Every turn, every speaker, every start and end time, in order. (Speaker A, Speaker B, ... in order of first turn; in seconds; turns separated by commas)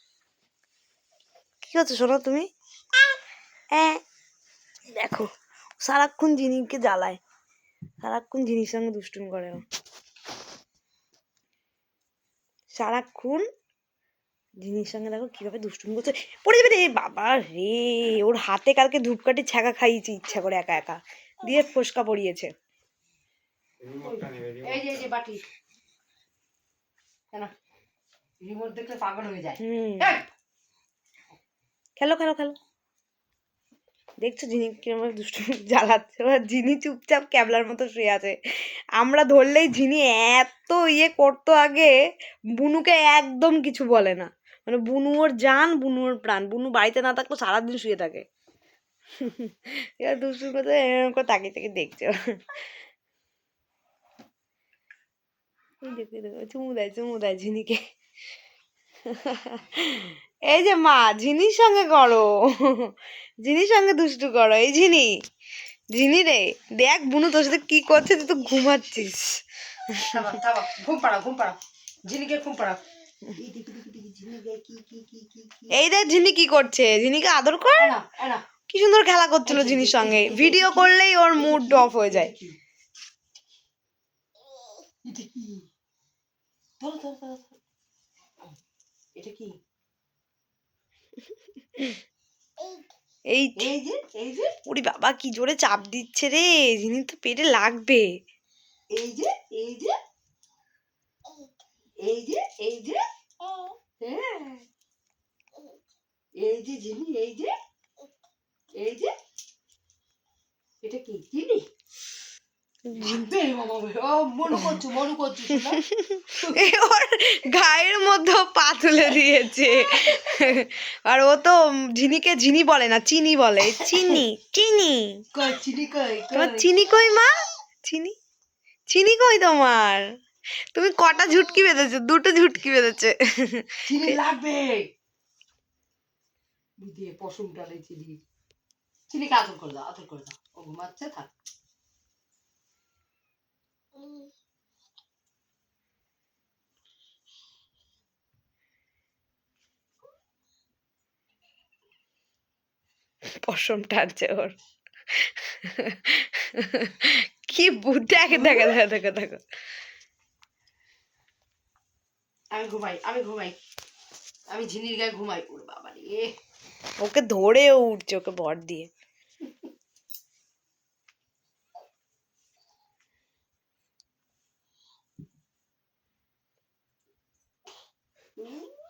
Speaker A: 1.6-2.5, Speaker A: 3.7-4.0, Speaker A: 4.9-7.2, Speaker A: 8.0-9.6, Speaker A: 12.7-13.4, Speaker A: 14.6-22.5, Speaker B: 23.9-25.4, Speaker B: 28.4-30.2, Speaker A: 29.6-30.1, Speaker A: 32.0-32.5, Speaker A: 34.2-41.9, Speaker A: 42.6-48.2, Speaker A: 49.2-52.1, Speaker A: 55.8-57.8, Speaker A: 59.1-65.1, Speaker A: 65.9-70.2, Speaker B: 70.1-72.8, Speaker B: 73.3-75.8, Speaker A: 75.7-77.9, Speaker B: 77.8-78.4, Speaker A: 78.7-82.3, Speaker B: 79.5-82.5, Speaker B: 85.0-85.6, Speaker B: 86.8-87.5, Speaker B: 89.2-89.5, Speaker A: 93.3-93.7, Speaker B: 93.6-94.5, Speaker A: 94.6-98.1, Speaker B: 98.9-99.9, Speaker B: 102.0-103.0, Speaker B: 104.0-104.6, Speaker B: 106.4-107.5, Speaker B: 108.8-109.1, Speaker B: 110.8-111.6, Speaker A: 112.9-113.3, Speaker B: 112.9-115.8, Speaker A: 114.5-114.8, Speaker A: 115.8-125.2, Speaker B: 116.3-116.7, Speaker B: 119.8-120.5, Speaker B: 123.7-124.2, Speaker B: 125.3-126.7, Speaker A: 126.3-127.3, Speaker A: 127.8-128.1, Speaker A: 128.9-130.1, Speaker A: 130.7-134.2, Speaker B: 133.8-134.9, Speaker B: 136.8-138.2, Speaker B: 139.1-141.3, Speaker A: 153.4-154.6, Speaker A: 155.2-159.4, Speaker B: 158.3-158.8, Speaker B: 162.5-163.6, Speaker B: 164.5-166.3, Speaker A: 167.0-168.9, Speaker B: 178.4-178.7